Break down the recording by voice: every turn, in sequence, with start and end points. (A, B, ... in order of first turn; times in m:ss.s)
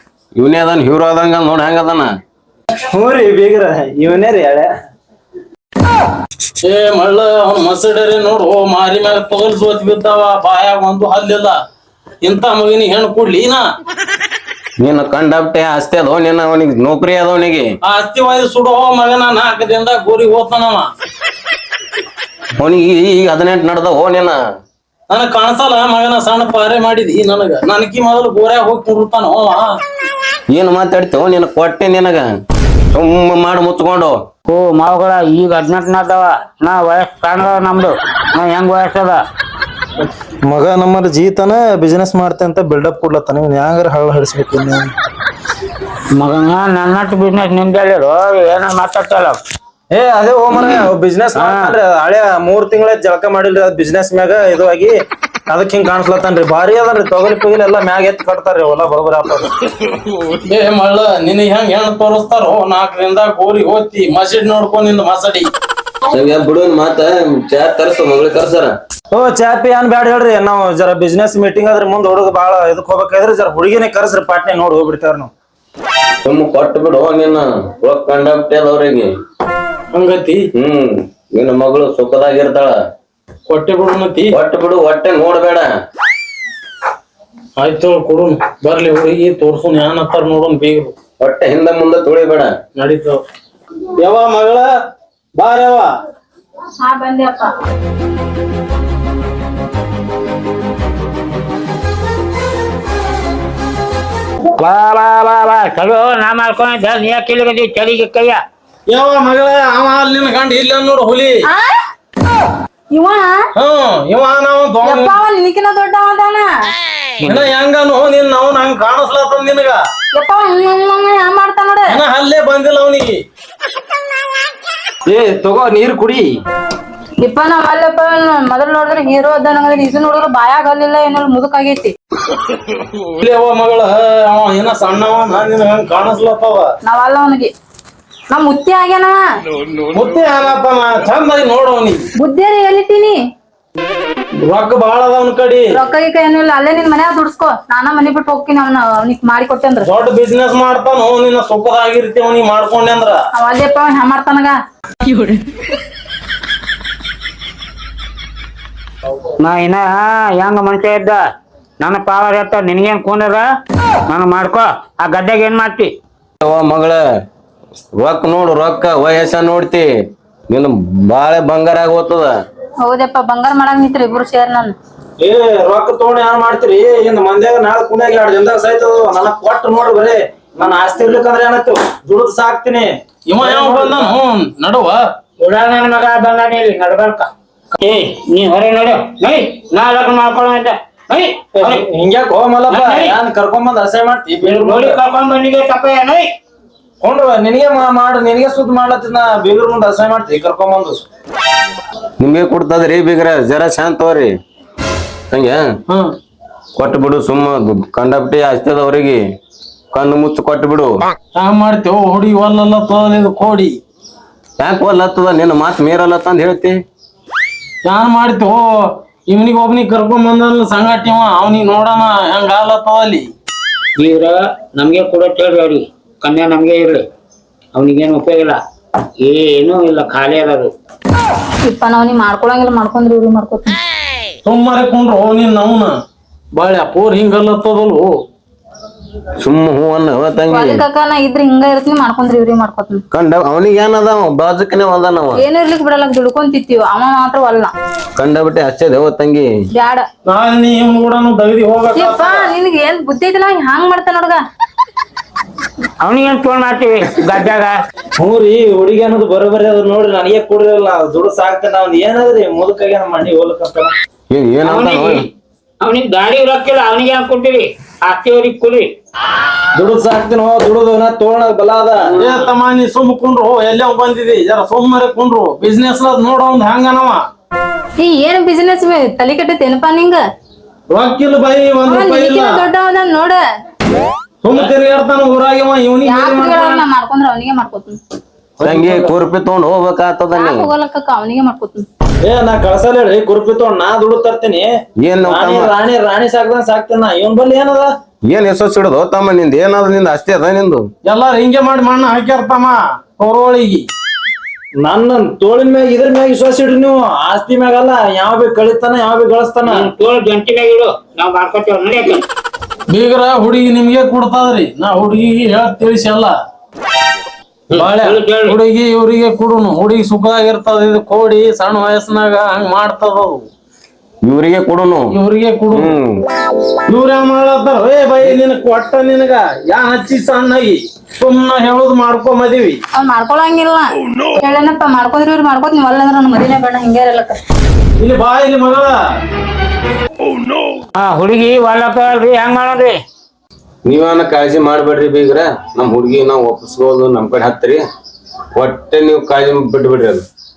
0:00.4-0:02.1 A
0:02.9-0:04.7 B
0:06.6-0:11.6 C
0:12.2-0:13.6 C
0:14.8-0:17.6 A
0:17.8-0:20.9 C
0:22.6-0:24.4 A
0:25.1-0:29.7 C
0:30.5-0:32.3 A
0:32.9-0:34.1 A
0:34.4-0:39.2 D
0:40.4-0:44.9 B
0:46.1-0:49.4 D
0:49.9-0:54.9 B
0:51.4-0:51.7 D
0:55.5-0:59.5 B
1:00.4-1:05.5 C
1:06.1-1:08.7 A
1:09.1-1:15.3 B
1:16.2-1:19.1 A
1:19.9-1:20.5 C
1:20.5-1:22.7 A
1:23.5-1:24.4 C
1:24.3-1:25.7 A
1:27.6-1:30.9 C
1:31.2-1:32.5 A
1:32.8-1:33.2 C
1:34.0-1:34.7 C
1:35.4-1:35.9 C
1:36.8-1:37.6 E
1:44.6-1:48.4 D
1:48.9-1:51.4 C
1:51.5-1:51.7 E
1:52.9-1:53.4 E
1:53.6-1:55.2 C
1:54.8-1:56.7 E
1:57.2-1:59.8 C
2:00.1-2:02.0 E
2:01.9-2:03.2 C
2:05.0-2:06.3 B
2:07.2-2:11.9 E
2:13.1-2:16.7 C
2:16.8-2:17.5 E
2:18.3-2:19.2 E
2:19.9-2:22.0 C
2:22.2-2:23.2 E
2:24.4-2:25.6 C
2:25.7-2:29.9 E
2:29.8-2:33.2 C
2:33.4-2:34.6 E
2:39.4-2:41.2 D
2:41.8-2:43.4 D
2:44.1-2:45.9 D
2:46.4-2:47.0 A
2:48.0-2:49.8 A
2:50.5-2:52.3 A
2:52.8-2:54.8 E
2:55.2-3:04.1 B
3:03.3-3:05.0 C
3:05.4-3:11.8 D
3:11.5-3:15.0 B
3:12.7-3:13.2 D
3:14.5-3:16.3 D
3:17.0-3:21.0 B
3:22.2-3:24.3 A
3:25.3-3:25.6 A
3:26.8-3:29.2 A
3:29.9-3:31.0 A
3:31.3-3:33.8 C
3:34.6-3:36.7 A
3:37.8-3:38.6 C
3:39.3-3:43.3 C
3:44.0-3:47.0 D
3:47.7-3:48.6 D
3:49.2-3:50.7 D
3:51.6-3:53.8 E
3:54.4-3:55.9 C
3:56.5-3:58.1 C
3:59.4-4:00.8 A
4:00.4-4:03.0 E
4:03.1-4:05.5 A
4:05.4-4:07.7 E
4:08.2-4:09.4 A
4:09.7-4:10.0 E
4:10.2-4:12.5 C
4:11.9-4:14.4 E
4:16.0-4:17.7 D
4:18.2-4:23.9 B
4:24.3-4:25.2 A
4:24.6-4:25.2 D
4:25.8-4:28.9 D
4:29.7-4:32.1 B
4:32.2-4:37.2 C
4:38.0-4:40.2 E
4:40.9-4:42.7 C
4:41.8-4:43.4 E
4:44.4-4:46.8 C
4:46.0-4:48.0 E
4:48.6-4:49.1 C
4:48.6-4:50.7 A
4:50.3-4:51.8 E
4:52.2-4:54.7 B
4:55.0-4:55.7 A
4:55.2-4:57.9 B
4:58.3-5:00.8 A
5:01.0-5:03.9 C
5:04.8-5:09.9 B
5:09.7-5:12.2 D
5:12.9-5:16.3 C
5:17.7-5:18.6 D
5:17.7-5:23.4 C
5:24.2-5:25.1 A
5:25.1-5:25.9 C
5:25.7-5:26.2 A
5:26.9-5:32.8 C
5:32.9-5:37.4 E
5:38.0-5:38.9 C
5:41.0-5:42.9 D
5:43.8-5:47.8 A
5:48.5-5:50.2 A